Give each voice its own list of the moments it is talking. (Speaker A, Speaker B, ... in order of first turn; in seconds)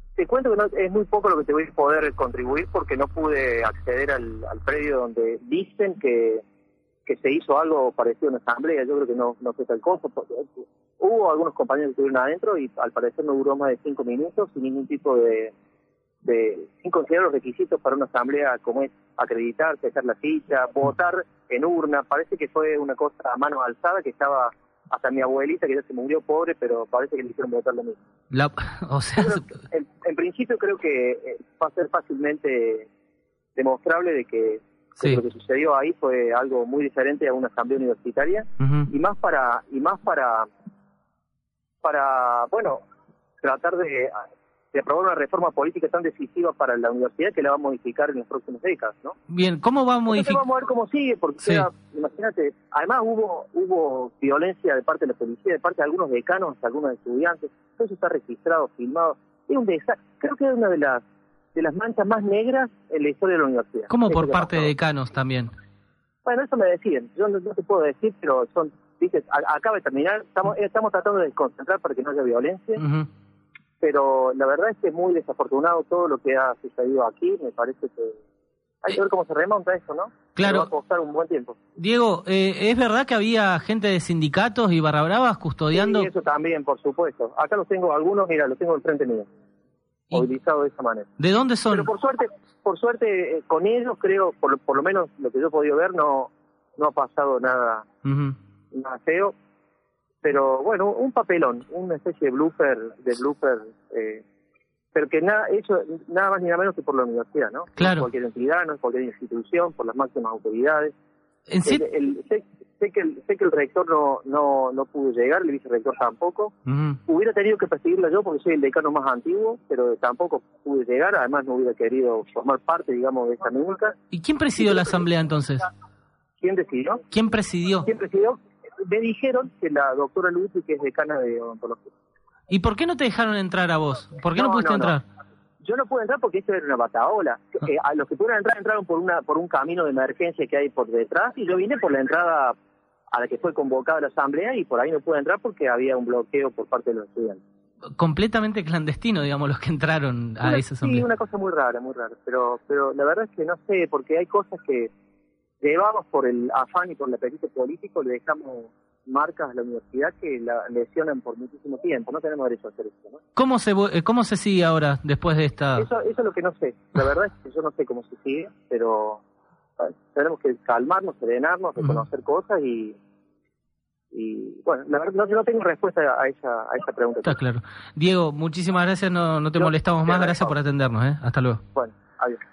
Speaker A: 0.2-6.4, 7.1-10.5, 11.0-15.5, 16.2-28.0, 29.2-32.9, 33.6-40.5, 41.8-42.8, 43.4-44.2, 44.7-49.2, 50.1-61.0, 61.6-64.7, 66.3-72.8, 73.8-78.2, 78.8-81.6, 85.7-89.3, 90.1-91.1, 91.7-97.9, 98.7-99.3, 100.2-104.2, 105.0-110.9, 111.7-116.5, 117.1-124.0, 124.6-125.0, 126.4-127.1, 127.9-131.9, 134.3-135.0, 135.6-142.6, 143.1-147.4, 150.4-154.9, 155.6-163.2, 165.8-169.2, 169.8-173.0, 174.1-177.4, 179.6-180.5, 181.7-182.4
Speaker B: 28.3-29.6, 38.6-38.9, 49.3-50.4, 63.9-65.5, 72.8-73.1, 80.4-80.7, 81.8-86.1, 91.2-91.9, 98.0-98.4, 107.8-108.1, 111.5-111.8, 116.7-117.0, 124.1-125.7, 127.1-127.9, 132.5-135.0, 148.0-151.1, 163.4-165.9, 177.2-181.6